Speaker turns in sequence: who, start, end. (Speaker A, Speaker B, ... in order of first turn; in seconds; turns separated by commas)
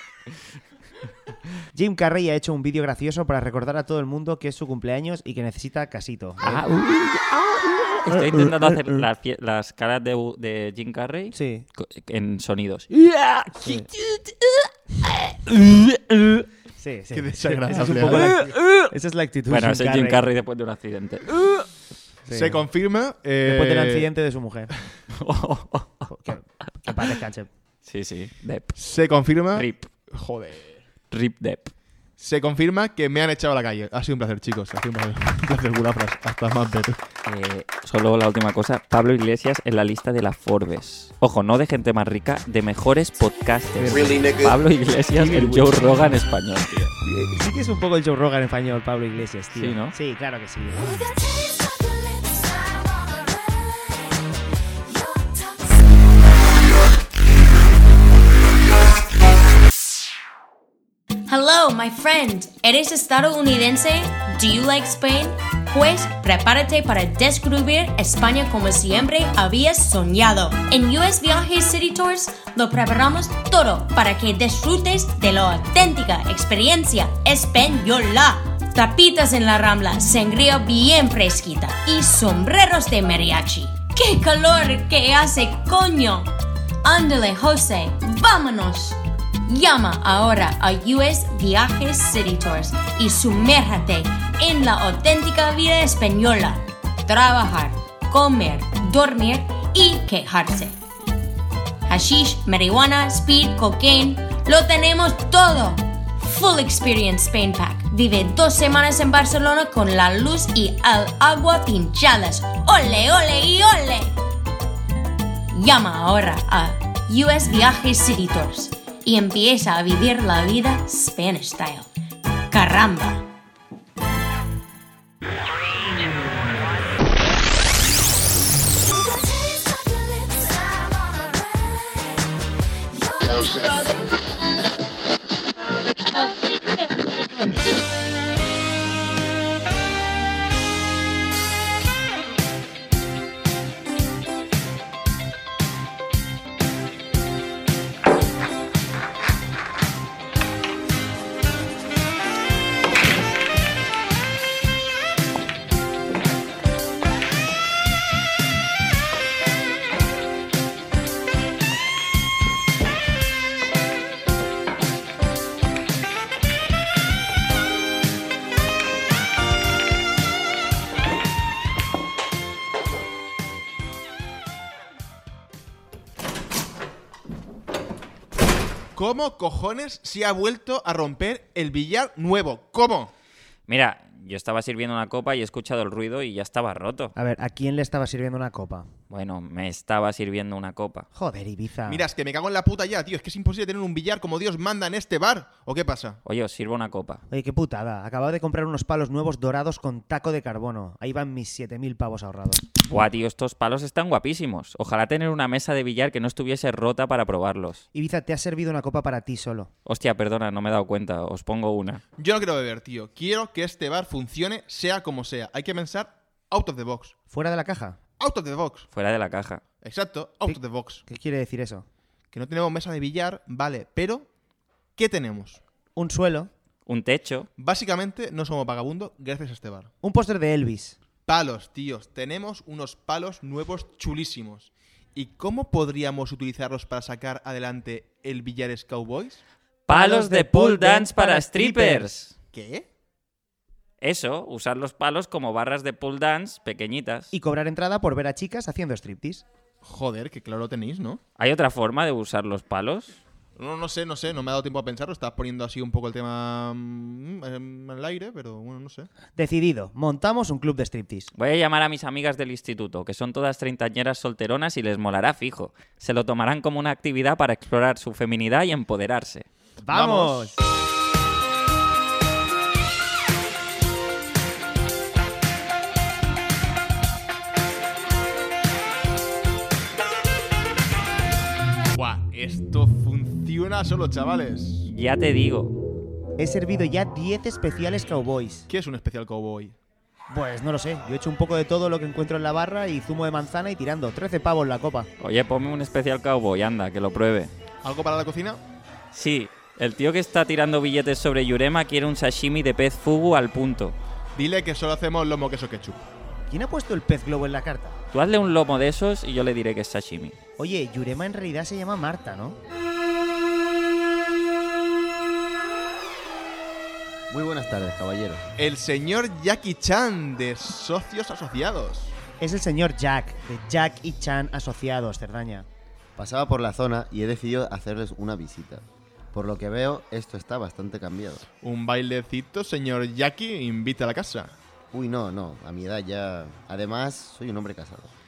Speaker A: 1.7-6.6, Speaker B: 6.4-16.4, Speaker A: 8.1-9.0, Speaker A: 11.3-11.7, Speaker A: 13.6-13.9, Speaker A: 16.8-20.2, Speaker C: 17.1-18.5, Speaker B: 18.0-18.9, Speaker B: 19.5-21.6, Speaker A: 22.2-22.6, Speaker C: 22.3-24.1, Speaker A: 23.4-24.7, Speaker B: 25.1-26.1, Speaker A: 26.1-27.5, Speaker B: 27.8-28.8, Speaker C: 28.7-30.8, Speaker B: 29.5-29.9, Speaker B: 31.1-31.7, Speaker C: 32.2-37.0, Speaker B: 37.2-46.9, Speaker A: 43.8-44.3, Speaker A: 45.2-45.8, Speaker A: 47.0-50.8, Speaker B: 49.5-49.9, Speaker D: 61.3-86.3, Speaker D: 86.8-100.8, Speaker D: 101.9-114.1, Speaker D: 115.5-121.9, Speaker D: 122.5-123.2, Speaker C: 178.9-183.1, Speaker B: 183.7-187.1, Speaker A: 187.2-188.9, Speaker B: 189.1-191.1, Speaker A: 191.1-192.0, Speaker C: 191.9-196.2, Speaker B: 196.2-197.2, Speaker A: 197.3-202.6, Speaker B: 202.8-207.8, Speaker A: 207.9-209.7, Speaker B: 209.8-212.0, Speaker C: 212.2-217.1, Speaker A: 217.3-218.0, Speaker C: 218.2-218.9, Speaker B: 218.9-219.6, Speaker C: 219.8-221.0, Speaker A: 221.1-221.8, Speaker C: 222.3-224.3, Speaker C: 224.9-225.6, Speaker A: 225.9-226.5, Speaker B: 226.8-227.5, Speaker C: 227.6-229.9, Speaker A: 230.0-230.9, Speaker C: 231.2-239.4, Speaker B: 239.9-242.3, Speaker A: 239.9-242.1, Speaker C: 242.5-242.9, Speaker B: 244.0-247.3, Speaker A: 247.3-249.4, Speaker C: 249.8-251.2, Speaker B: 251.4-253.2, Speaker C: 253.6-259.1, Speaker A: 259.4-261.3, Speaker B: 261.4-269.5, Speaker A: 269.8-270.6, Speaker C: 269.9-270.4, Speaker C: 281.9-284.9, Speaker B: 284.9-285.7, Speaker A: 286.4-288.7, Speaker C: 288.7-289.8, Speaker A: 290.3-295.1, Speaker B: 295.2-297.5, Speaker C: 297.8-298.6, Speaker B: 299.1-303.9, Speaker C: 304.4-306.0, Speaker A: 306.5-308.0, Speaker B: 308.1-310.4, Speaker A: 310.6-312.6, Speaker E: 317.3-318.5, Speaker C: 318.6-322.1, Speaker A: 322.4-325.7, Speaker E: 326.1-331.4, Speaker C: 331.6-334.5, Speaker E: 334.9-338.1